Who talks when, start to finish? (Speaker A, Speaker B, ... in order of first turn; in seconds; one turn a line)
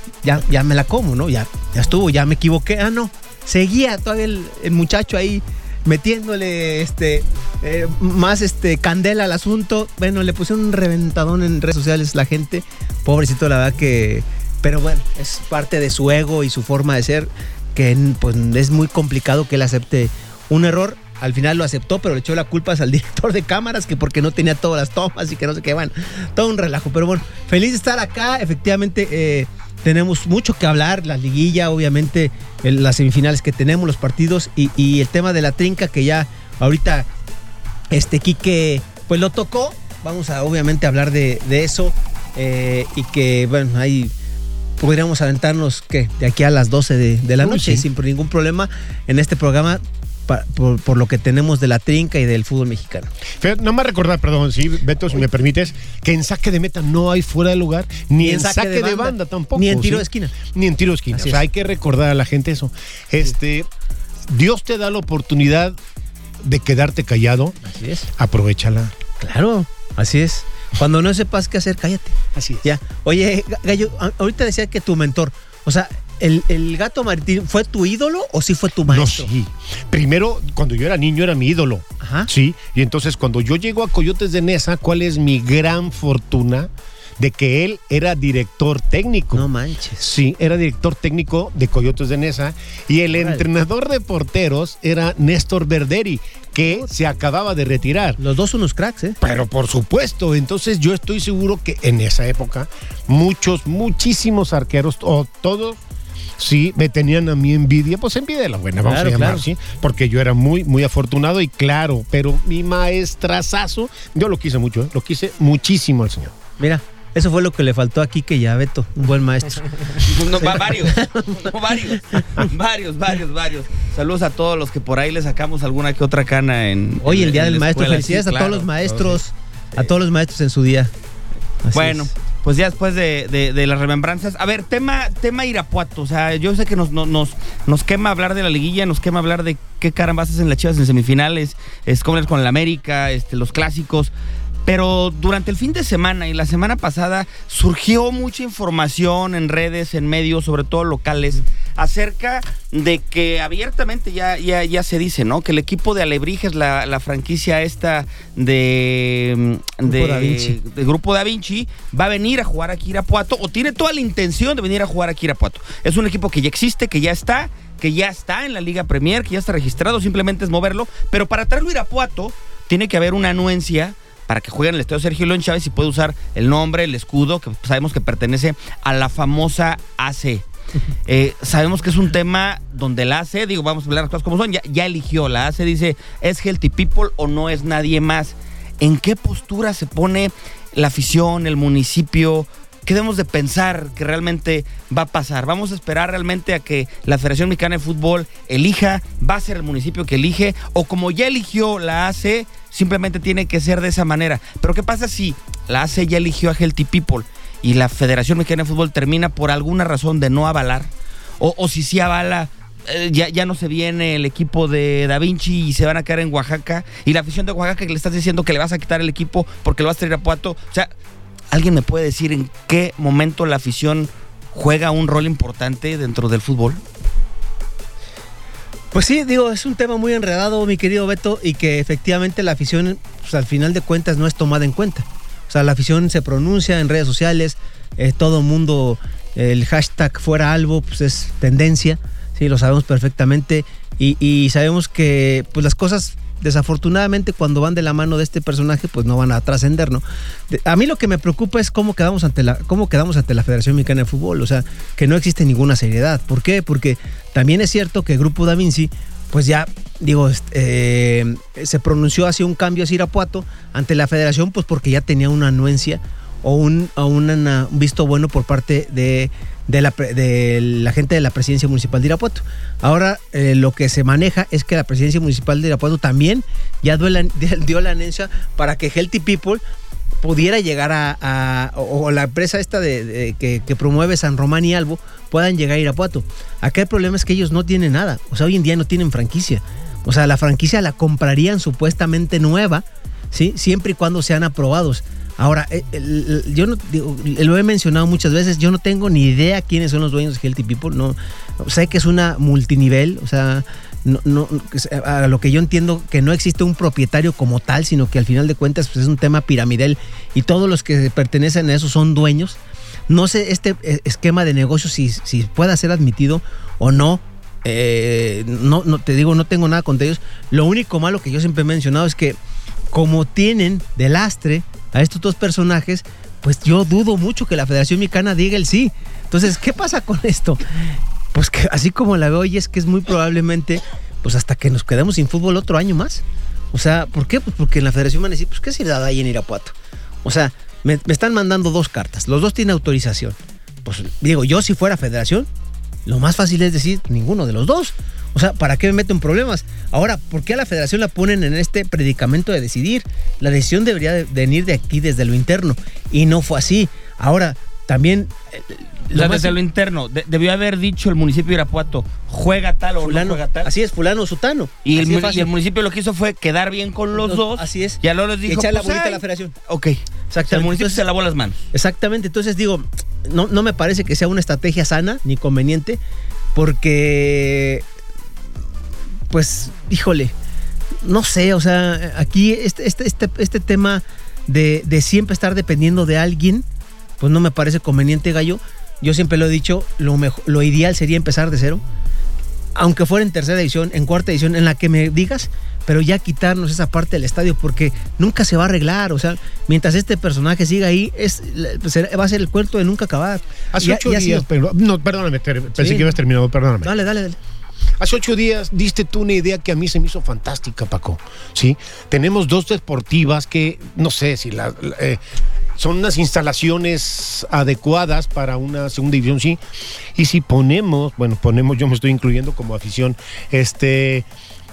Speaker A: 0.2-37.1
Speaker A: 37.9-44.1
Speaker A: 44.8-53.1
Speaker B: 47.4-47.9
Speaker B: 53.4-63.7
Speaker A: 58.2-60.4
Speaker A: 61.1-61.4
Speaker B: 64.3-65.8
Speaker B: 66.4-67.6
Speaker A: 67.6-68.1
Speaker B: 68.2-69.0
Speaker A: 69.2-79.3
Speaker B: 72.3-72.7
Speaker B: 78.9-89.5
Speaker A: 82.0-82.3
Speaker A: 89.3-90.0
Speaker B: 90.0-98.2
Speaker A: 93.2-93.5
Speaker A: 98.2-99.2
Speaker B: 99.2-105.8
Speaker B: 106.4-116.3
Speaker A: 108.9-109.4
Speaker A: 116.6-122.5
Speaker C: 120.0-128.7
Speaker A: 127.0-130.9
Speaker A: 131.6-132.1
Speaker C: 131.7-144.1
Speaker C: 144.7-180.4
Speaker A: 159.8-160.6
Speaker C: 181.1-220.9
Speaker C: 221.5-226.8
Speaker A: 228.9-279.6
Speaker A: 280.2-312.6
Speaker A: 313.1-322.4
Speaker A: 322.9-345.5
Speaker A: 346.1-359.6
Speaker C: 359.1-363.7
Speaker A: 363.0-365.5
Speaker C: 364.9-371.6
Speaker A: 367.1-369.5
Speaker A: 370.3-371.0
Speaker A: 371.7-376.0
Speaker A: 376.6-377.8
Speaker A: 379.3-380.3
Speaker A: 381.0-386.6
Speaker A: 387.2-391.8
Speaker A: 392.8-404.5
Speaker B: 403.7-406.9
Speaker A: 405.7-406.1
Speaker A: 406.8-407.4
Speaker B: 408.0-415.2
Speaker B: 415.8-419.6
Speaker B: 420.1-424.3